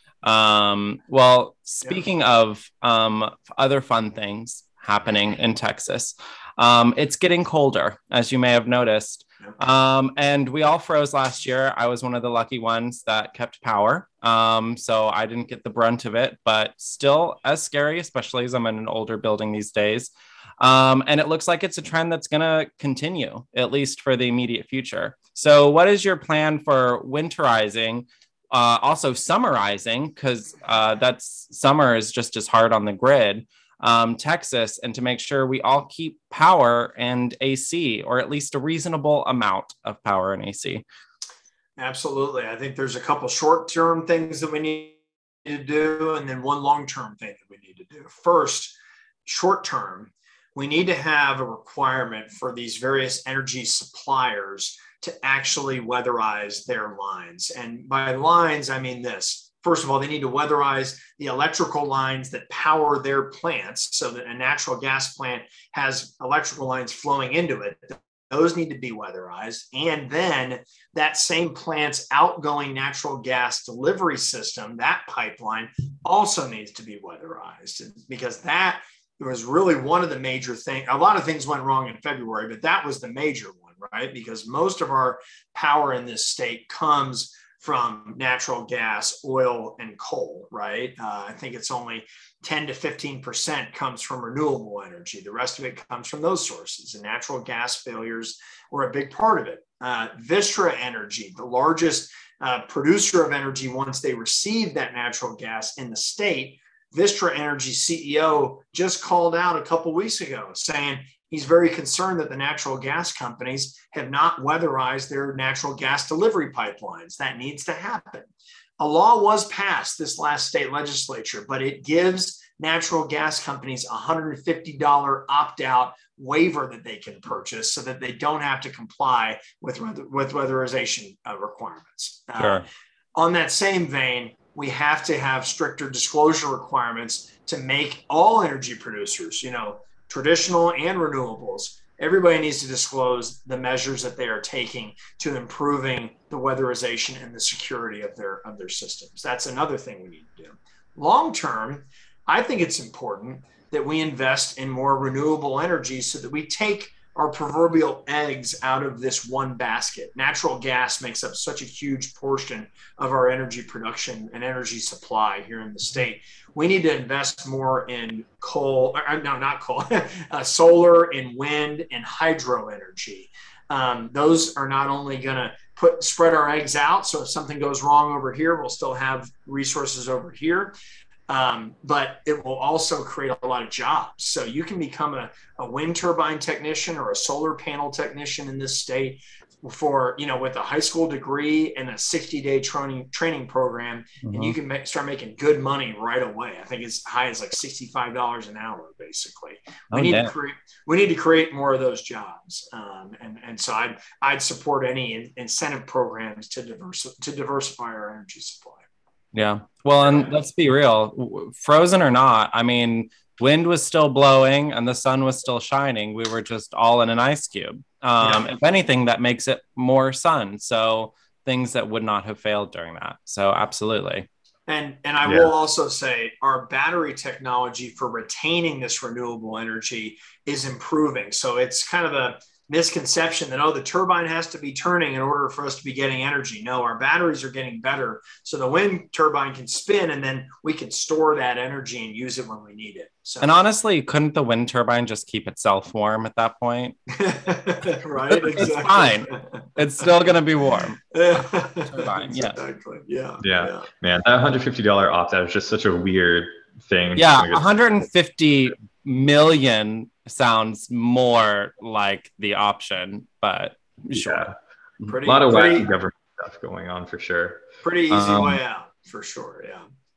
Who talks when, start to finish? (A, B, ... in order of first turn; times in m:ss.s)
0:00.2-0:40.8 A
0:41.8-3:00.7 B
2:12.4-2:12.7 A
3:01.3-3:28.8 B
3:14.2-3:14.6 A
3:19.9-3:20.3 A
3:29.3-3:44.3 A
3:30.0-3:30.3 B
3:38.2-3:38.6 B
3:44.7-4:03.5 B
4:03.4-4:07.0 A
4:07.1-4:09.6 B
4:08.3-4:12.6 A
4:11.1-4:13.9 B
4:13.4-4:17.6 C
4:17.2-4:25.2 A
4:24.1-4:24.5 C
4:25.1-4:25.9 B
4:25.2-4:28.6 C
4:27.8-4:29.8 B